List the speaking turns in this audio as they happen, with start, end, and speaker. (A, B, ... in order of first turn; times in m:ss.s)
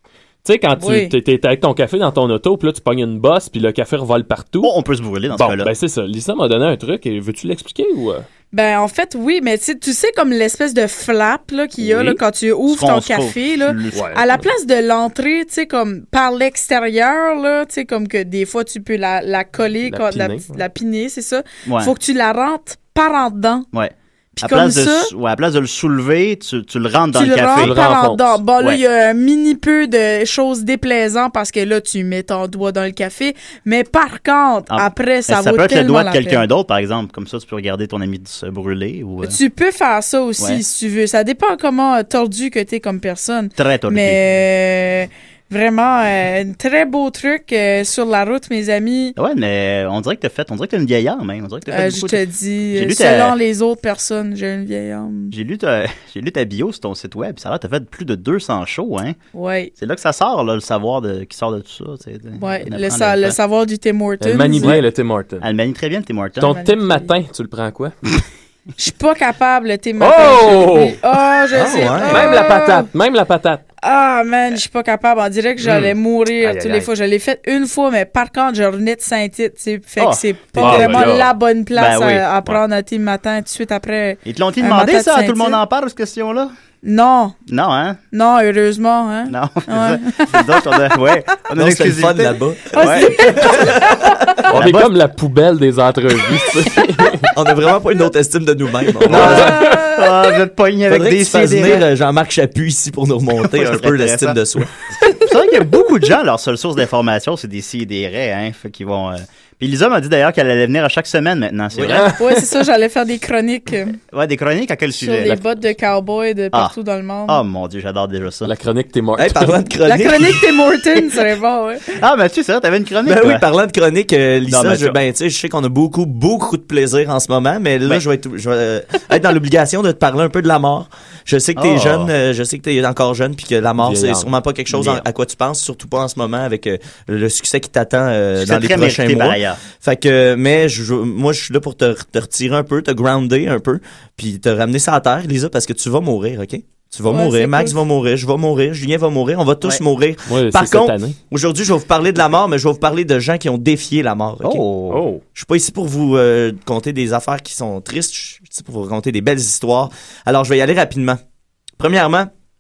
0:00.4-0:04.7 A
0:00.8-0:01.1 B
0:04.6-0:05.7 C
0:05.3-0:08.3 A
0:08.5-0:23.7 B
0:11.8-0:12.2 A
0:12.7-0:14.1 C
0:13.9-0:14.3 A
0:19.9-0:20.6 A
0:21.7-0:21.9 C
0:23.7-0:27.8 C
0:24.4-0:25.1 B
0:27.1-0:36.4 B
0:27.6-0:28.4 A
0:34.7-0:39.4 C
0:39.2-0:49.2 B
0:43.6-0:44.2 C
0:49.2-0:52.2 C
0:51.7-0:55.3 B
0:52.7-0:53.4 C
0:55.3-0:59.2 C
0:59.3-0:59.7 B
0:59.8-1:03.4 C
1:02.4-1:04.8 B
1:04.2-1:05.5 A
1:04.6-1:04.9 C
1:05.4-1:06.6 C
1:06.4-1:08.0 A
1:06.4-1:07.1 B
1:08.8-1:12.9 B
1:10.0-1:11.0 A
1:11.5-1:12.4 D
1:12.1-1:13.6 A
1:13.8-1:25.6 B
1:15.6-1:16.9 A
1:20.0-1:21.1 C
1:20.6-1:21.3 A
1:21.7-1:22.6 C
1:24.2-1:26.5 C
1:26.8-1:27.4 B
1:27.5-1:28.0 C
1:28.1-1:30.7 B
1:29.3-1:33.6 C
1:31.6-1:34.2 D
1:32.7-1:34.0 B
1:34.5-1:37.3 A
1:34.5-1:34.9 C
1:37.3-1:39.7 D
1:39.0-1:39.9 A
1:39.1-1:41.8 C
1:40.9-1:44.7 D
1:43.4-1:44.4 C
1:45.2-1:52.1 C
1:51.8-1:52.0 D
1:51.8-1:52.1 A
1:52.0-1:54.0 B
1:54.1-1:55.4 C
1:55.0-1:57.4 B
1:57.3-1:58.5 C
1:58.4-1:59.6 A
1:59.2-2:00.5 D
1:59.9-2:01.9 B
2:02.0-2:03.4 C
2:03.0-2:34.6 D
2:04.5-2:05.0 C
2:11.6-2:12.1 C
2:13.8-2:14.3 A
2:14.7-2:15.0 C
2:18.4-2:19.6 C
2:27.1-2:27.8 B
2:30.3-2:31.2 A
2:34.4-2:35.1 C
2:34.9-2:35.2 A
2:35.4-2:41.2 D
2:41.8-2:42.3 D